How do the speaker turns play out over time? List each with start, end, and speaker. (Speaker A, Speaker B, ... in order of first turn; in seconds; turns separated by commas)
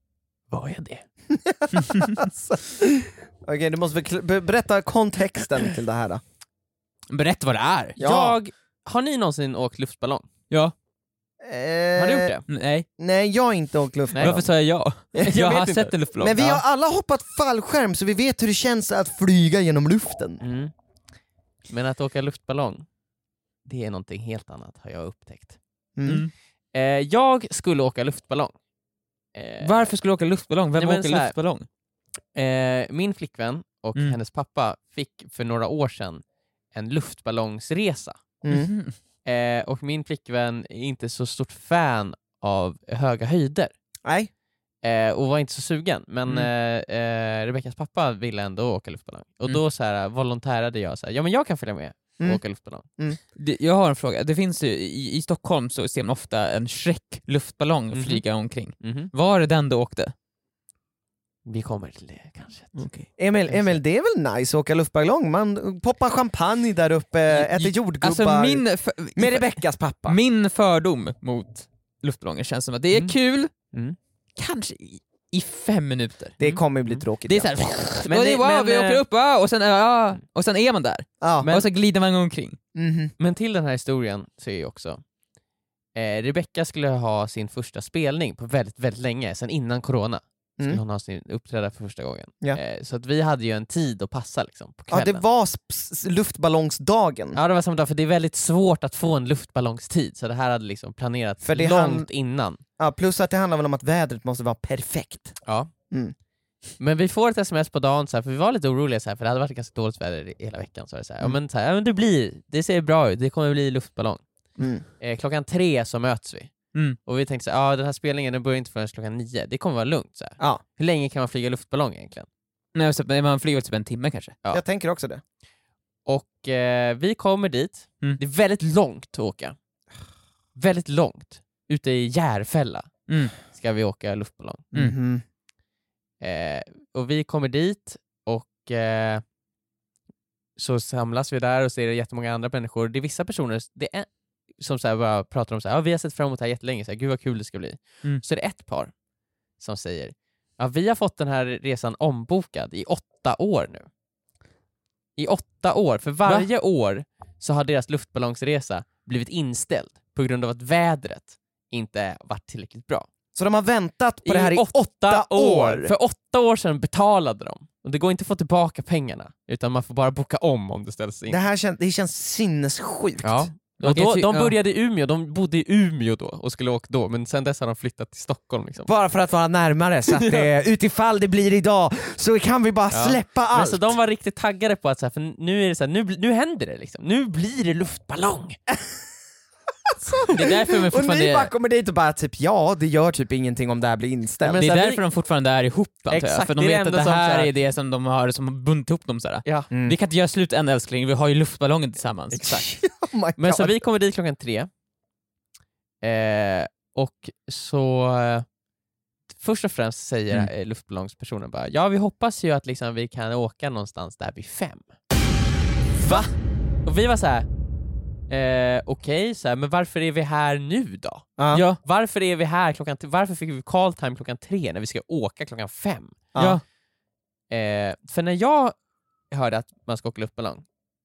Speaker A: 0.5-1.0, Speaker B: 1.3-6.2, Speaker C: 7.1-8.0, Speaker B: 8.0-8.4, Speaker A: 8.0-10.3, Speaker B: 11.4-12.4, Speaker A: 12.0-12.4, Speaker C: 12.5-12.9, Speaker B: 13.0-14.5, Speaker A: 14.1-14.4, Speaker C: 14.2-16.6, Speaker A: 15.2-15.9, Speaker B: 16.2-20.4, Speaker A: 20.4-20.7, Speaker A: 21.7-22.9, Speaker A: 23.6-25.6, Speaker B: 25.9-26.3, Speaker C: 26.1-26.3, Speaker A: 26.7-28.5, Speaker A: 29.3-29.9, Speaker C: 29.6-31.7, Speaker A: 30.8-31.4, Speaker A: 32.4-38.2, Speaker B: 38.4-38.7, Speaker C: 38.5-39.0, Speaker A: 39.2-43.7, Speaker B: 44.0-44.3, Speaker A: 44.8-52.9, Speaker C: 53.4-60.1, Speaker A: 57.9-58.2, Speaker A: 58.8-59.1, Speaker A: 61.5-62.8, Speaker C: 62.8-63.0, Speaker B: 63.0-70.2, Speaker A: 63.5-63.8, Speaker C: 67.3-73.5, Speaker A: 72.9-74.0, Speaker C: 74.4-76.4, Speaker B: 76.4-77.5, Speaker C: 77.2-82.6, Speaker A: 78.1-79.0, Speaker B: 81.2-81.5, Speaker A: 81.4-81.7, Speaker B: 82.8-83.1, Speaker A: 83.2-85.0, Speaker A: 86.0-95.2, Speaker B: 94.9-97.4, Speaker A: 97.3-102.6, Speaker B: 101.4-102.1, Speaker B: 102.8-105.4, Speaker A: 105.5-105.7, Speaker A: 106.8-114.3, Speaker B: 114.6-114.8, Speaker A: 115.0-122.3, Speaker C: 122.7-124.3, Speaker B: 124.5-125.2, Speaker A: 126.1-129.6, Speaker A: 130.6-134.7, Speaker C: 133.1-133.3, Speaker B: 134.7-135.2, Speaker A: 136.2-139.3, Speaker A: 140.6-148.9, Speaker A: 149.6-153.9, Speaker A: 155.2-163.1, Speaker B: 163.3-165.9, Speaker A: 164.2-171.4, Speaker B: 171.3-173.5, Speaker A: 173.2-178.9, Speaker C: 173.8-174.6, Speaker B: 178.9-183.9, Speaker A: 180.1-180.5, Speaker A: 182.9-188.6, Speaker B: 189.9-194.6, Speaker C: 190.3-191.5, Speaker A: 194.4-195.0, Speaker C: 194.6-202.4, Speaker A: 196.1-197.5, Speaker B: 199.7-200.0, Speaker A: 202.3-202.7, Speaker B: 202.4-203.8, Speaker A: 203.4-204.7, Speaker A: 206.0-208.5, Speaker A: 209.3-214.8, Speaker A: 216.0-216.3, Speaker B: 216.1-216.3, Speaker A: 216.8-217.5, Speaker A: 218.3-226.2, Speaker C: 221.5-221.8, Speaker B: 226.3-226.6, Speaker C: 226.4-226.6, Speaker A: 227.5-228.8, Speaker A: 229.3-230.7